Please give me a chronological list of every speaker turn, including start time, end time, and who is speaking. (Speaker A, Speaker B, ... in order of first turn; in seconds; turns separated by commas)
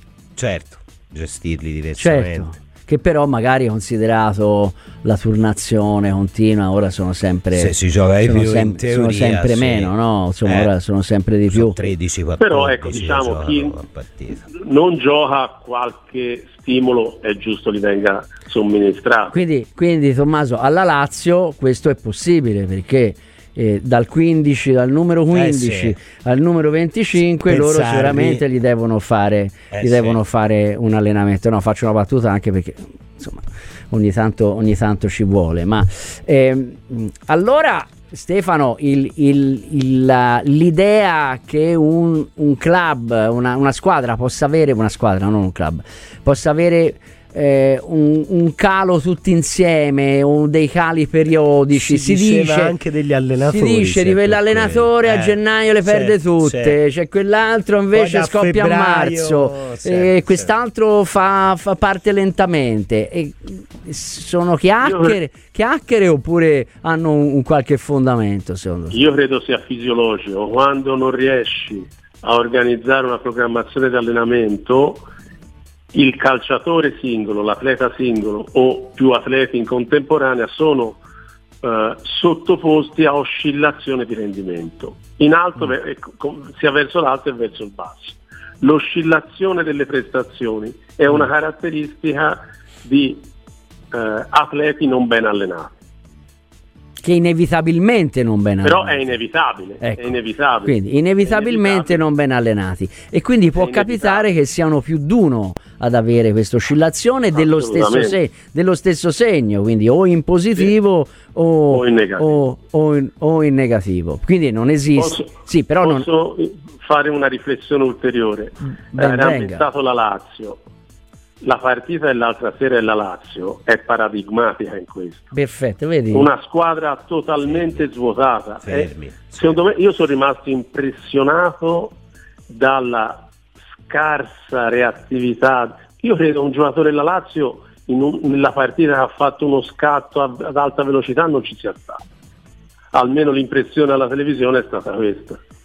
Speaker A: 0.3-2.5, Speaker B: 2.0-11.9, Speaker A: 7.5-9.9, Speaker A: 10.4-10.7, Speaker A: 11.5-14.4, Speaker C: 12.4-13.8, Speaker C: 14.5-19.4, Speaker B: 19.3-52.8, Speaker A: 25.3-25.9, Speaker A: 27.4-28.4, Speaker A: 29.7-30.2, Speaker A: 51.7-56.8, Speaker B: 53.4-69.0, Speaker A: 57.9-60.5, Speaker C: 64.8-65.2, Speaker C: 68.9-75.1, Speaker C: 75.9-81.0, Speaker C: 81.6-93.2, Speaker C: 93.9-95.7, Speaker B: 97.0-99.0, Speaker C: 98.6-102.0, Speaker B: 99.8-116.0, Speaker C: 103.5-104.3, Speaker C: 107.3-108.2, Speaker C: 111.7-112.4, Speaker C: 115.0-120.6, Speaker B: 118.9-119.6, Speaker C: 121.4-125.3, Speaker B: 125.3-126.3, Speaker C: 126.1-131.9, Speaker A: 127.5-127.8, Speaker A: 128.6-129.4, Speaker C: 132.5-133.2, Speaker C: 133.9-142.0, Speaker C: 142.9-145.4